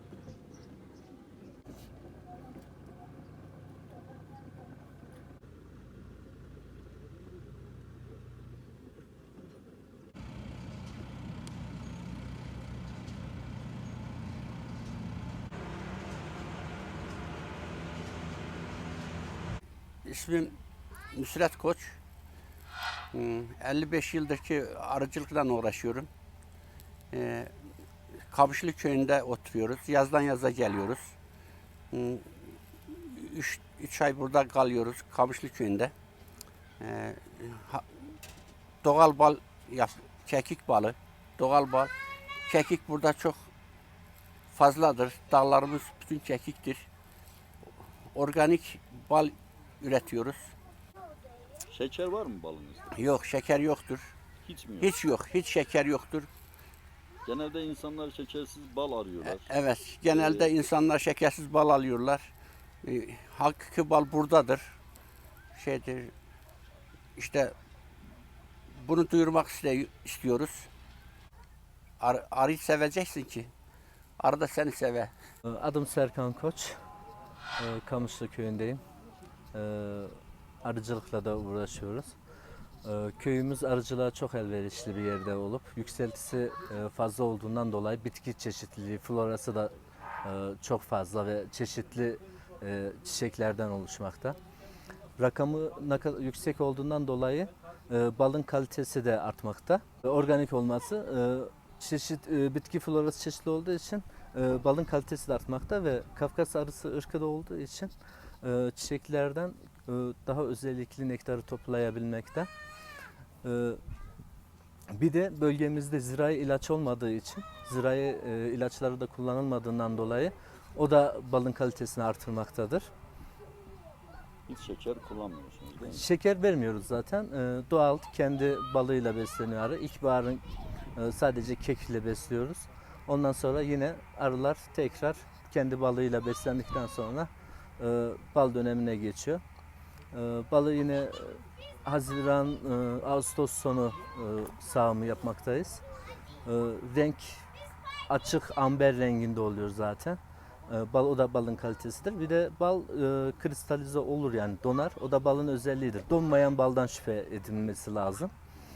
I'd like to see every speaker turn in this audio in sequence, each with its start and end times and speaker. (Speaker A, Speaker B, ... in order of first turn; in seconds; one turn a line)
Speaker A: 20.1-20.6
Speaker A: 21.1-22.0
Speaker A: 23.1-26.1
Speaker A: 27.1-27.5
Speaker A: 28.3-31.1
Speaker A: 31.9-35.9
Speaker A: 36.8-37.9
Speaker A: 38.8-41.9
Speaker A: 42.5-43.5
Speaker A: 44.5-46.9
Speaker A: 48.1-50.5
Speaker B: 51.7-53.0
Speaker A: 52.9-54.1
Speaker B: 54.4-54.9
Speaker A: 54.8-56.3
Speaker B: 57.2-59.5
Speaker A: 59.2-62.3
Speaker B: 60.0-60.5
Speaker A: 62.8-64.8
Speaker A: 65.5-66.1
Speaker A: 67.2-67.5
Speaker A: 68.7-70.7
Speaker A: 72.0-73.5
Speaker A: 74.2-75.1
Speaker C: 75.5-76.8
Speaker C: 77.6-78.8
Speaker C: 79.5-82.2
Speaker C: 82.8-94.4
Speaker C: 95.2-112.5
Speaker C: 113.4-113.8
Speaker C: 114.9-122.9
Speaker B: 124.5-126.0
Speaker C: 125.8-130.4
Speaker C: 131.0-139.4
Speaker C: 140.1-145.8
Speaker C: 146.4-147.5
Speaker C: 148.1-158.3